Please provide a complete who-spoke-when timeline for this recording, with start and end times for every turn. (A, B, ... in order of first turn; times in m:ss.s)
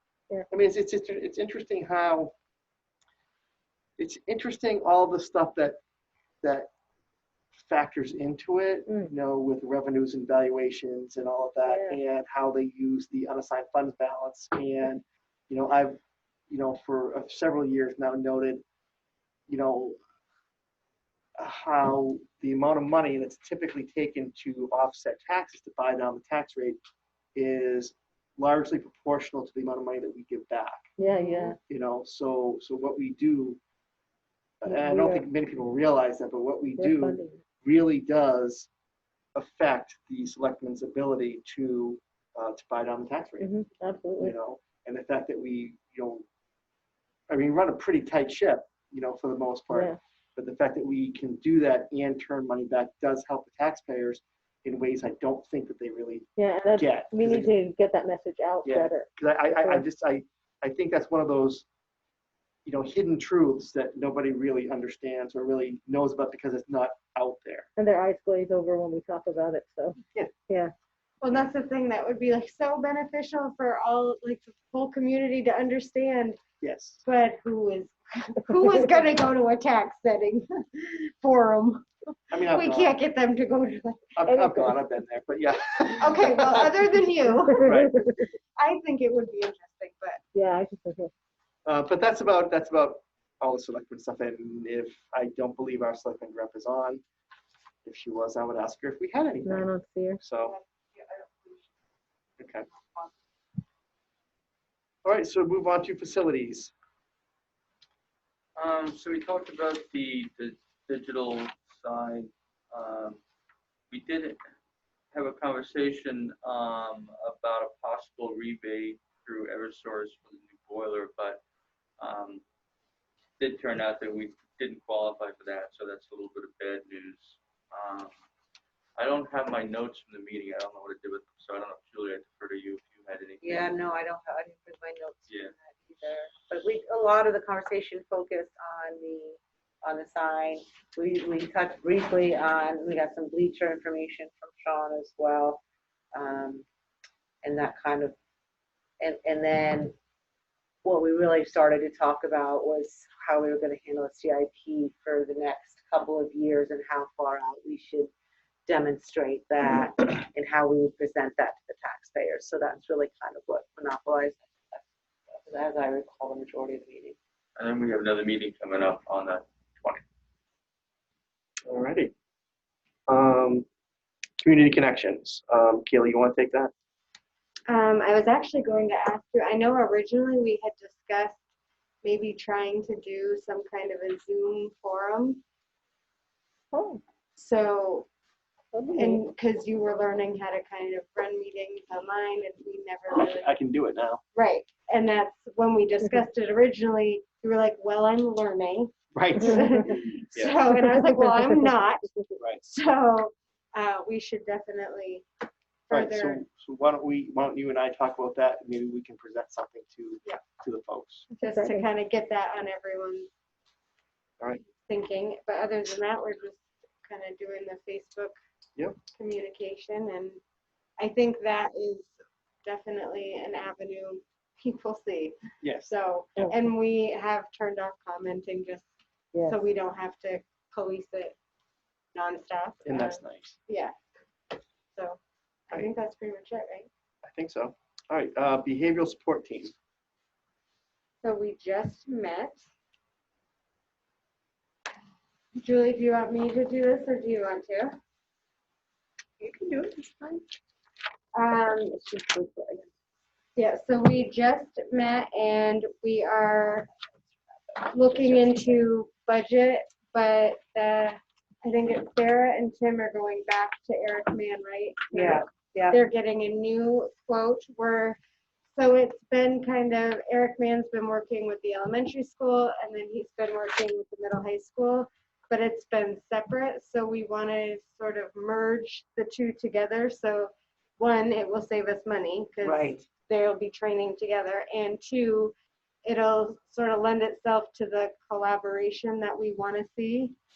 0:00.5-0:02.3 A
0:04.0-0:05.8 A
0:06.4-0:06.7 A
0:07.5-0:18.6 A
0:08.9-0:09.1 B
0:11.6-0:12.0 B
0:19.5-0:20.0 A
0:21.4-0:26.8 A
0:27.3-0:30.8 A
0:31.0-0:31.6 B
0:31.7-0:33.6 A
0:34.6-0:38.7 A
0:34.7-0:35.2 B
0:36.8-0:37.4 B
0:39.3-0:43.5 A
0:43.4-0:44.3 B
0:44.2-0:46.2 A
0:47.3-0:57.5 A
0:49.7-0:50.0 B
0:56.4-0:59.8 B
0:58.6-1:01.6 A
1:02.6-1:07.7 A
1:07.8-1:10.7 B
1:11.2-1:16.4 C
1:16.6-1:17.0 A
1:17.0-1:24.2 C
1:22.3-1:23.0 A
1:24.2-1:26.7 A
1:24.2-1:24.8 B
1:26.0-1:27.7 C
1:27.5-1:28.2 B
1:27.6-1:28.0 A
1:28.6-1:30.2 C
1:30.3-1:31.1 B
1:31.6-1:37.0 A
1:37.8-1:39.7 A
1:39.4-1:40.2 B
1:40.2-1:40.6 A
1:40.4-1:41.4 D
1:42.4-1:42.7 A
1:45.0-1:46.7 A
1:48.6-1:53.2 E
1:53.9-1:54.4 E
1:55.1-2:01.4 E
2:02.0-2:02.4 E
2:03.4-2:08.1 E
2:09.0-2:13.7 E
2:13.4-2:25.6 D
2:26.1-2:26.6 D
2:27.4-2:28.1 D
2:29.0-2:29.9 D
2:30.8-2:38.1 D
2:38.6-2:47.2 D
2:47.6-2:50.0 E
2:51.6-2:52.1 A
2:53.1-2:53.6 A
2:54.4-2:56.7 A
2:57.7-3:01.4 C
3:02.0-3:05.4 C
3:06.7-3:07.0 B
3:07.4-3:08.1 C
3:08.7-3:09.2 B
3:08.9-3:13.5 C
3:13.1-3:14.2 A
3:14.3-3:22.1 C
3:19.1-3:19.8 A
3:20.3-3:20.6 A
3:22.4-3:22.6 A
3:22.6-3:25.2 C
3:25.9-3:26.4 C
3:25.9-3:31.3 A
3:31.3-3:31.9 B
3:31.4-3:33.3 C
3:34.8-3:38.3 C
3:39.1-3:40.4 C
3:41.0-3:42.1 C
3:42.6-3:48.8 C
3:45.6-3:45.9 A
3:49.4-3:51.3 C
3:52.1-3:53.9 C
3:52.8-3:53.6 A
3:55.7-3:56.9 C
3:57.2-3:59.7 A
4:01.2-4:02.6 C
4:05.5-4:08.0 C
4:09.4-4:10.4 D
4:11.3-4:12.1 C
4:13.6-4:16.9 C
4:17.8-4:28.2 C
4:25.1-4:26.0 D
4:28.8-4:45.5 C
4:42.6-4:43.0 D
4:46.0-4:50.4 C